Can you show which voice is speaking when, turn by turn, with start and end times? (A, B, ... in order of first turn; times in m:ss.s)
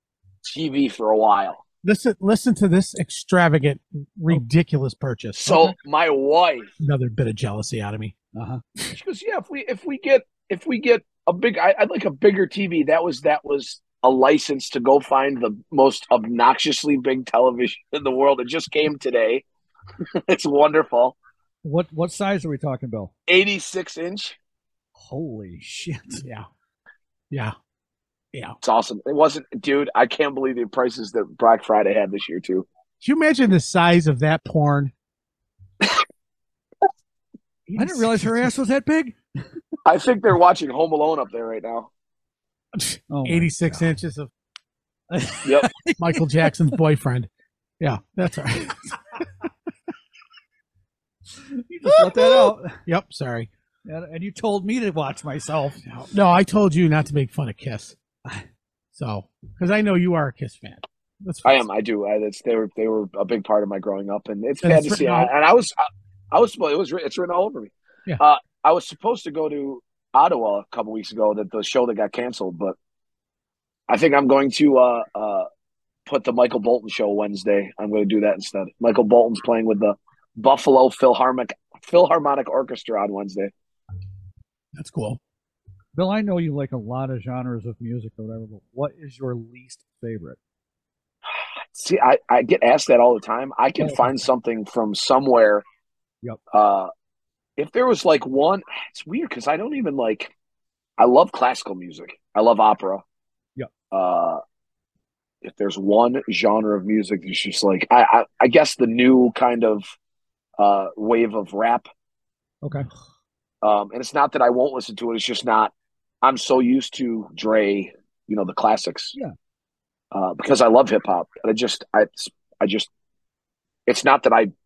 0:00.4-0:01.6 A
0:01.8-0:05.8 B
0:05.4-0:06.7 A
0:06.8-0:08.1 B
0:08.3-0:08.6 C
0:08.9-0:19.4 A
0:20.1-0:21.2 A
0:21.6-0:23.1 C
0:23.3-0:24.4 A
0:25.0-0:26.2 C
0:26.2-0:26.4 B
0:28.6-0:32.6 A
0:33.0-0:34.9 B
0:37.7-0:38.5 B
0:37.7-0:39.2 C
0:39.8-0:41.9 A
0:42.7-0:44.3 B
0:43.1-0:43.9 C
0:45.1-0:46.5 C
0:45.4-0:45.7 A
0:46.0-0:47.3 B
0:47.8-0:49.2 B
0:51.5-0:52.8 C
0:51.9-0:53.5 B
0:53.8-0:55.8 C
0:55.8-0:58.0 B
0:58.9-1:01.6 B
1:01.4-1:05.8 A
1:04.6-1:05.3 B
1:06.3-1:12.7 A
1:13.9-1:15.5 A
1:16.0-1:23.5 A
1:24.7-1:25.2 B
1:25.9-1:30.4 C
1:31.7-1:35.6 A
1:33.8-1:34.1 C
1:36.5-1:36.9 A
1:37.6-1:40.3 A
1:41.0-1:43.0 A
1:43.9-1:44.4 A
1:45.4-1:49.8 A
1:50.6-1:51.9 A
1:52.6-1:52.9 C
1:53.6-1:59.1 A
2:00.1-2:02.9 A
2:03.9-2:04.5 A